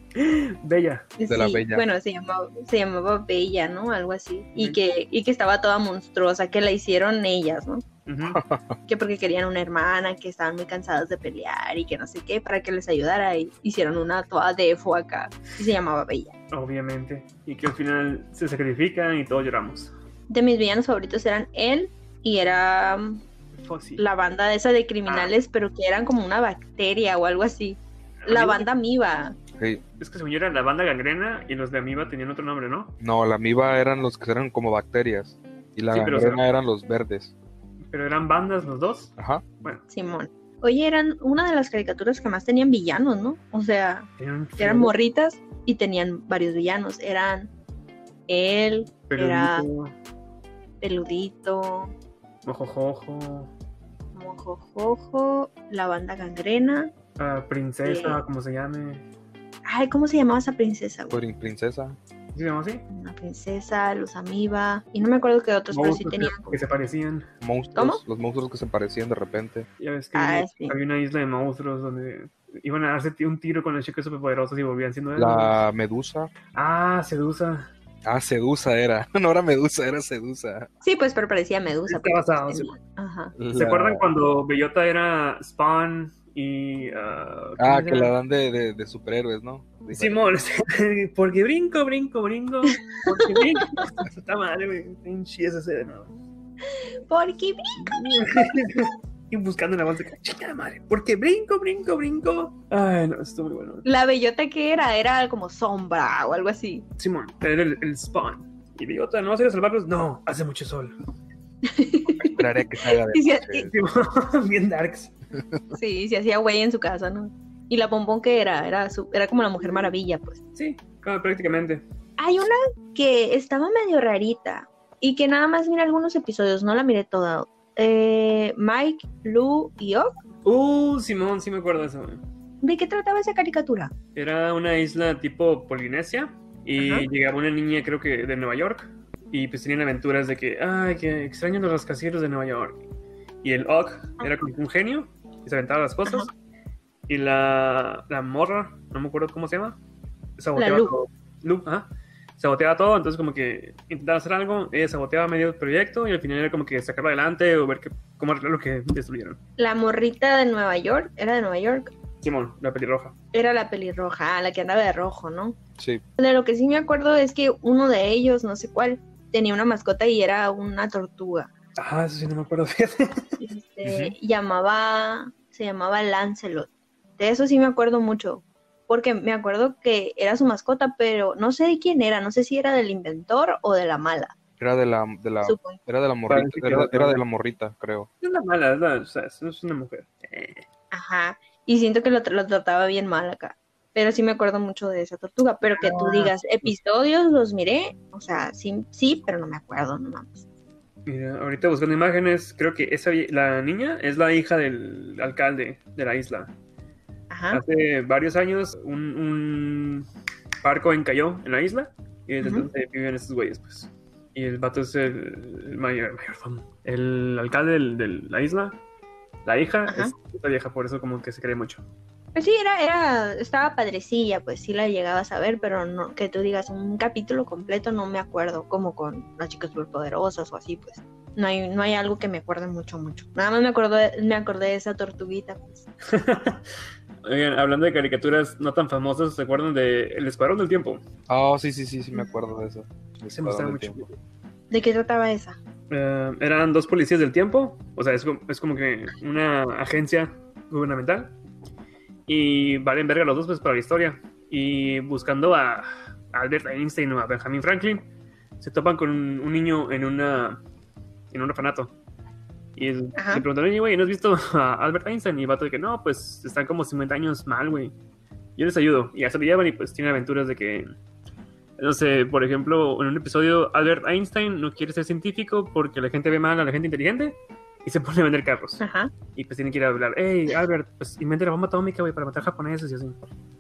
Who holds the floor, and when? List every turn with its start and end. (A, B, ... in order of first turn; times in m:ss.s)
0:00.2-0:01.1 A
0:01.2-0:07.8 B
0:01.3-0:01.8 C
0:08.1-0:08.4 A
0:08.4-0:08.8 C
0:08.9-0:16.3 B
0:16.5-0:19.9 A
0:20.3-0:23.2 B
0:23.6-0:24.0 A
0:24.0-0:29.4 B
0:25.1-0:25.3 A
0:28.2-0:28.7 A
0:29.6-0:29.8 C
0:30.0-0:32.9 A
0:33.0-0:37.3 C
0:35.9-0:36.4 A
0:37.9-0:39.8 A
0:39.2-0:39.4 C
0:39.9-0:44.1 B
0:44.2-0:44.9 A
0:44.6-0:47.5 B
0:48.3-0:49.7 B
0:49.1-0:49.9 A
0:50.8-0:51.9 B
0:52.5-0:53.5 A
0:54.2-0:56.9 B
0:57.2-0:59.0 A
0:57.8-0:58.2 B
0:59.7-1:01.2 B
1:01.1-1:02.0 C
1:02.3-1:02.8 A
1:02.9-1:06.6 B
1:05.7-1:07.3 A
1:07.4-1:09.7 C
1:07.8-1:08.0 B
1:09.8-1:15.5 A
1:10.2-1:10.8 B
1:15.2-1:16.3 C
1:16.5-1:17.7 A
1:18.0-1:20.7 C
1:20.8-1:23.4 B
1:21.9-1:22.7 A
1:23.4-1:24.1 C
1:23.5-1:28.1 A
1:27.6-1:30.2 C
1:30.0-1:36.1 A
1:33.1-1:33.8 B
1:36.7-1:38.7 B
1:37.8-1:43.8 A
1:43.8-1:46.8 B
1:47.0-1:51.0 A
1:51.6-1:53.7 B
1:52.2-1:53.7 C
1:53.7-1:55.1 A
1:55.7-2:00.4 B
2:00.6-2:01.8 A
2:02.2-2:10.1 B
2:10.4-2:12.2 A
2:12.6-2:13.9 B
2:14.2-2:22.8 A
2:16.8-2:17.1 B
2:23.4-2:26.3 A
2:27.1-2:29.8 A
2:30.4-2:39.4 A
2:30.6-2:31.0 B
2:39.6-2:41.9 B
2:42.2-2:43.1 A
2:43.3-2:45.6 B
2:46.2-2:51.5 B
2:51.8-2:53.4 A
2:53.4-3:04.4 B
2:53.8-2:54.2 C
3:04.6-3:08.1 C
3:05.4-3:05.8 B
3:06.3-3:07.2 A
3:08.2-3:10.6 A
3:10.9-3:20.4 B
3:15.8-3:16.3 A
3:21.1-3:26.5 A
3:27.3-3:27.6 B
3:27.5-3:30.1 A
3:30.6-3:38.8 A
3:32.4-3:32.7 B
3:39.4-3:41.8 A
3:39.9-3:40.1 B
3:42.4-3:55.8 B
3:56.1-3:56.6 A
3:57.2-4:01.0 A
4:01.3-4:04.0 C
4:03.3-4:04.1 A
4:04.7-4:05.6 B
4:05.9-4:11.3 A
4:12.3-4:18.1 A
4:18.6-4:20.6 A
4:21.3-4:21.9 A
4:22.8-4:27.9 A
4:23.2-4:23.4 B
4:28.6-4:30.9 A
4:31.8-4:38.8 A
4:38.8-4:39.1 B
4:39.4-4:43.2 A